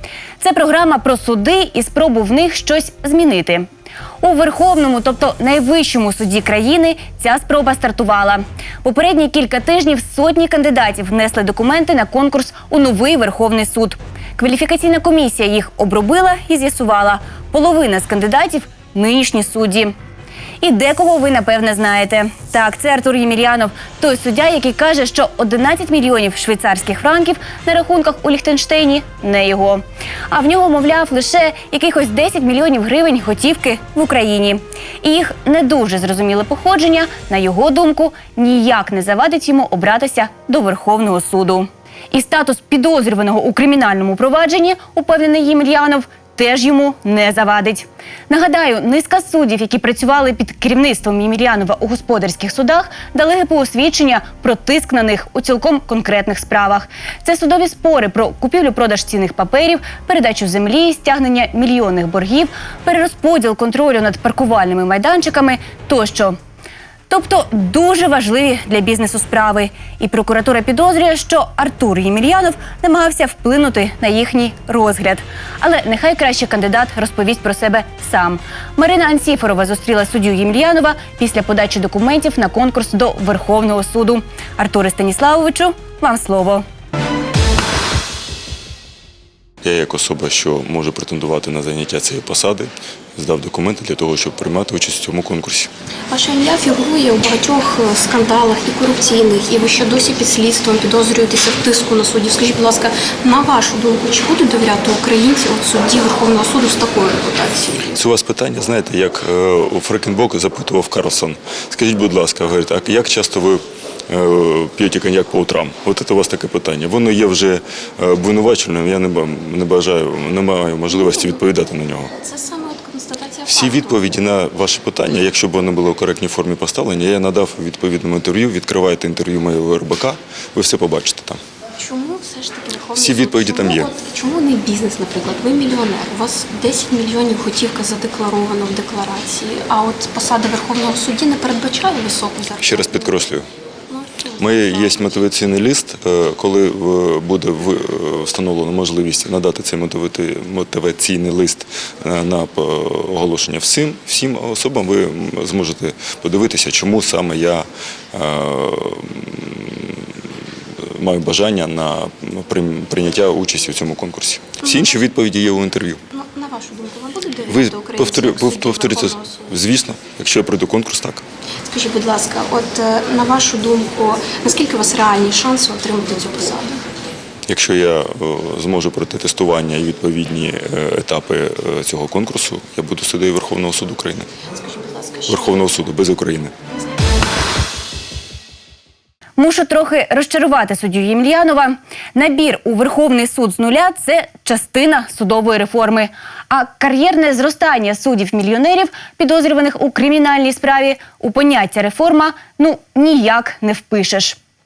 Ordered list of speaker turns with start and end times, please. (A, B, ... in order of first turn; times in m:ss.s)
0:00.4-0:03.7 A
0:04.2-0:19.9 A
0:20.6-1:06.4 A
1:07.1-1:26.6 A
1:29.6-1:35.7 B
1:36.1-1:47.9 C
1:47.9-2:02.1 B
2:00.9-2:01.4 C
2:02.2-2:04.0 C
2:03.5-2:11.4 B
2:11.8-2:23.2 C
2:12.9-2:13.9 B
2:22.6-2:23.5 B
2:23.9-2:25.1 C
2:24.4-2:40.0 B
2:41.0-2:46.0 B
2:46.1-2:49.5 C
2:47.5-2:51.2 B
2:51.7-2:56.8 C
2:57.5-3:04.3 B
3:05.3-3:06.5 B
3:09.4-3:24.4 A